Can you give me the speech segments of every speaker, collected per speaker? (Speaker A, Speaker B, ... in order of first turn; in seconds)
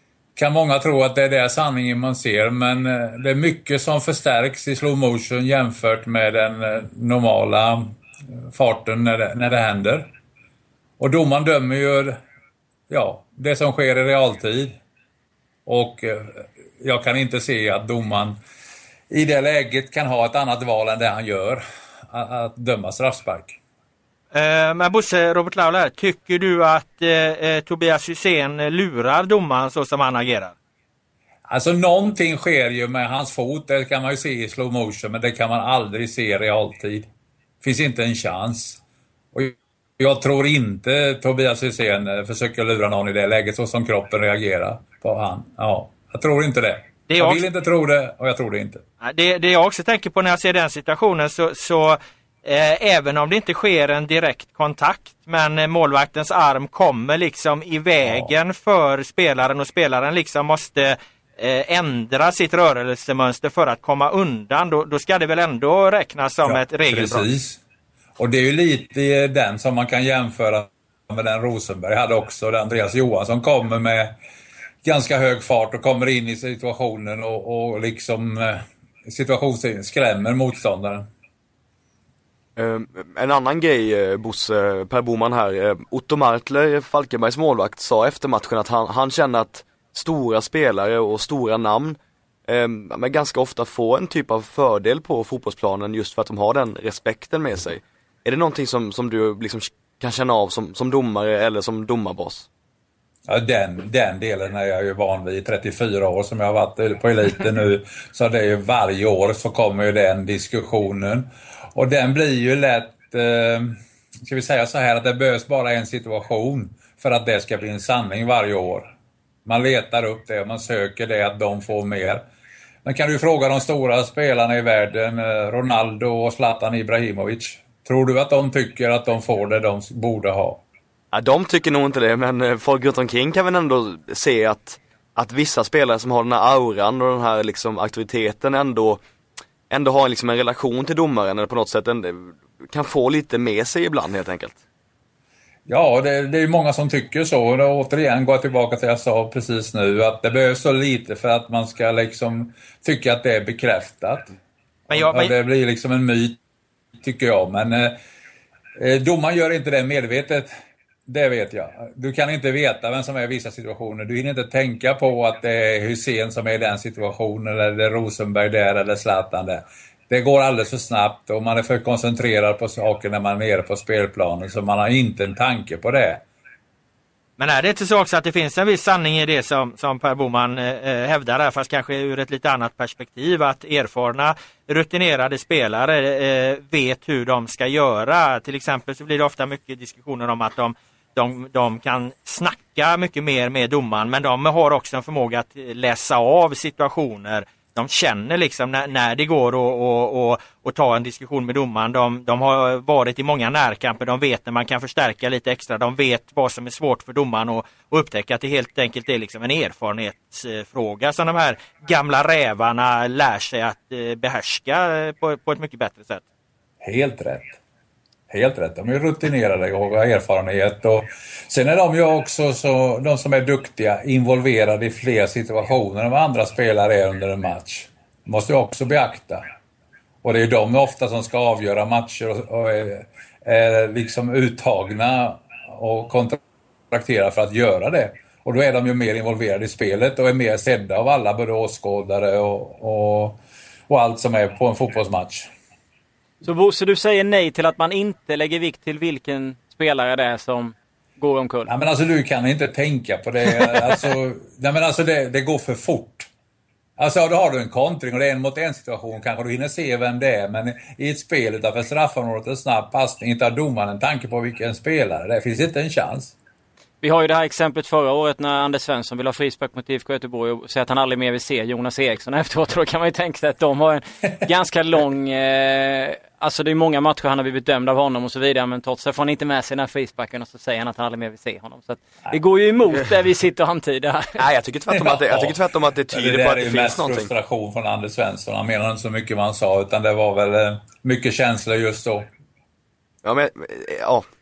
Speaker A: 0.4-8.0, 8.5-10.1, 11.0-12.2, 12.9-14.8, 15.7-18.4, 19.1-23.6, 31.5-37.1, 37.6-38.8, 39.3-48.8, 66.4-67.6, 68.2-74.2, 74.8-81.1, 103.3-118.9, 119.5-122.2, 122.8-130.6, 145.7-154.3, 154.9-156.4, 157.0-158.0, 158.8-160.5, 161.1-176.2, 216.8-217.6, 218.3-229.5, 230.2-236.4, 236.9-245.5, 251.7-256.3, 257.0-266.3, 284.9-285.6, 286.1-292.3
Speaker B: 24.3-30.5, 47.1-47.5, 49.0-67.3, 154.9-155.3, 177.4-216.2
Speaker C: 82.6-102.5, 131.1-139.0, 139.7-144.6, 284.4-287.3, 293.2-294.2
Speaker D: 246.4-251.7, 267.0-284.4